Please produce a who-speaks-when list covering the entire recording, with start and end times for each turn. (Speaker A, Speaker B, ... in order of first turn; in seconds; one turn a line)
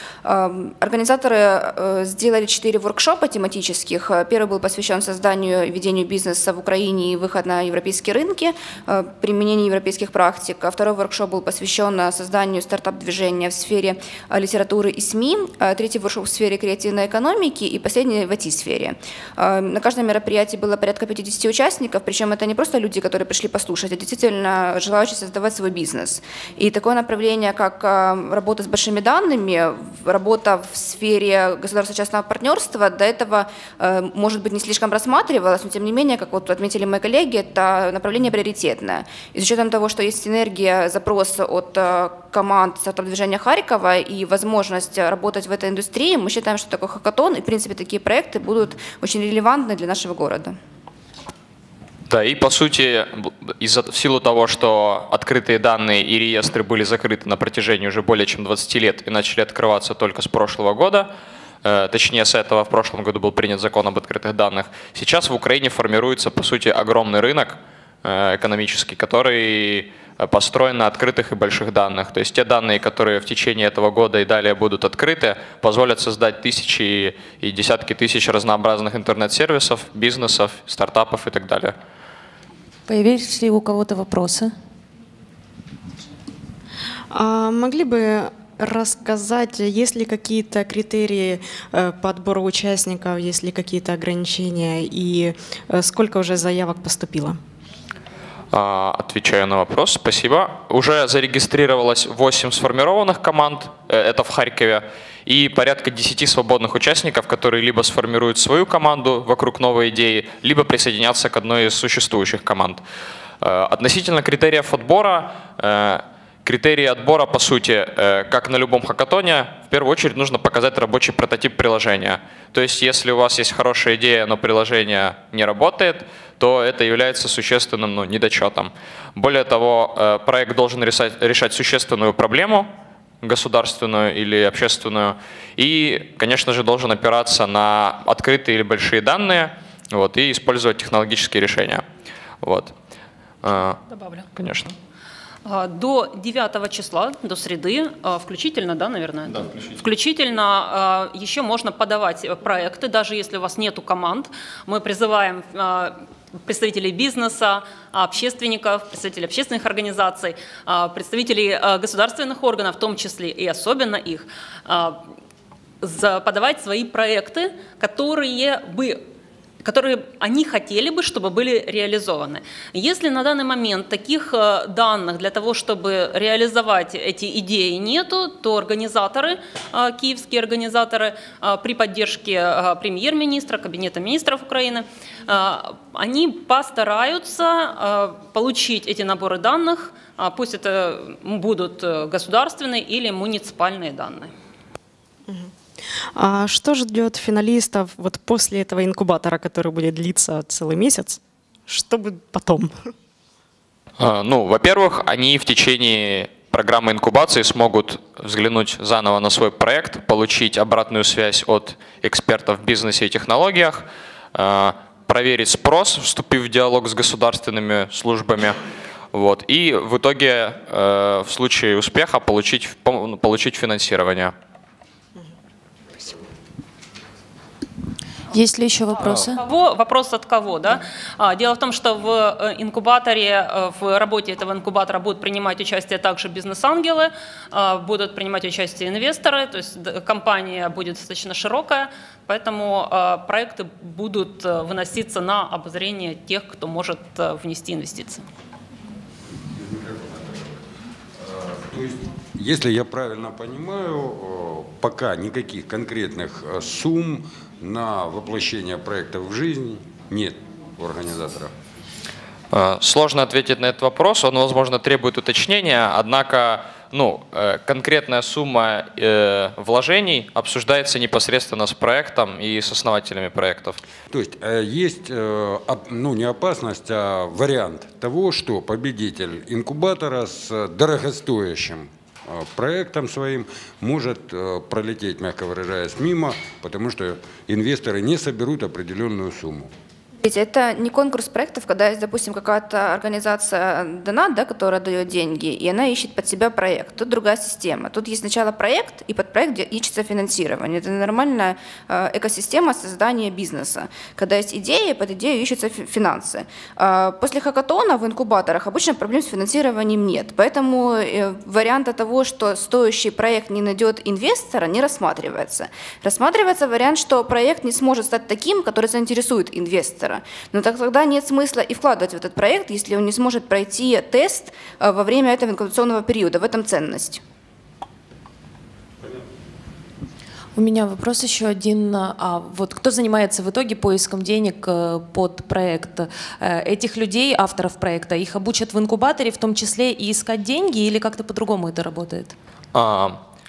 Speaker A: 0.2-50.5
Speaker B: 52.1-61.1
Speaker B: 61.6-81.8
Speaker C: 82.9-84.5
Speaker D: 87.1-97.4
Speaker B: 98.5-112.8
Speaker B: 113.4-132.7
Speaker B: 133.2-141.8
Speaker B: 142.4-142.7
Speaker B: 143.4-143.8
Speaker E: 143.9-144.2
Speaker B: 144.3-144.7
Speaker E: 145.4-165.0
Speaker E: 165.8-169.0
Speaker E: 169.6-194.3
Speaker D: 196.1-202.9
Speaker B: 204.0-218.6
Speaker B: 219.1-224.3
Speaker C: 228.3-229.4
Speaker E: 229.0-248.2
Speaker F: 249.5-250.5
Speaker F: 251.2-261.5
Speaker B: 262.5-273.8
Speaker F: 274.1-289.7
Speaker A: 290.2-327.2
Speaker C: 330.6-342.4
Speaker B: 342.7-343.2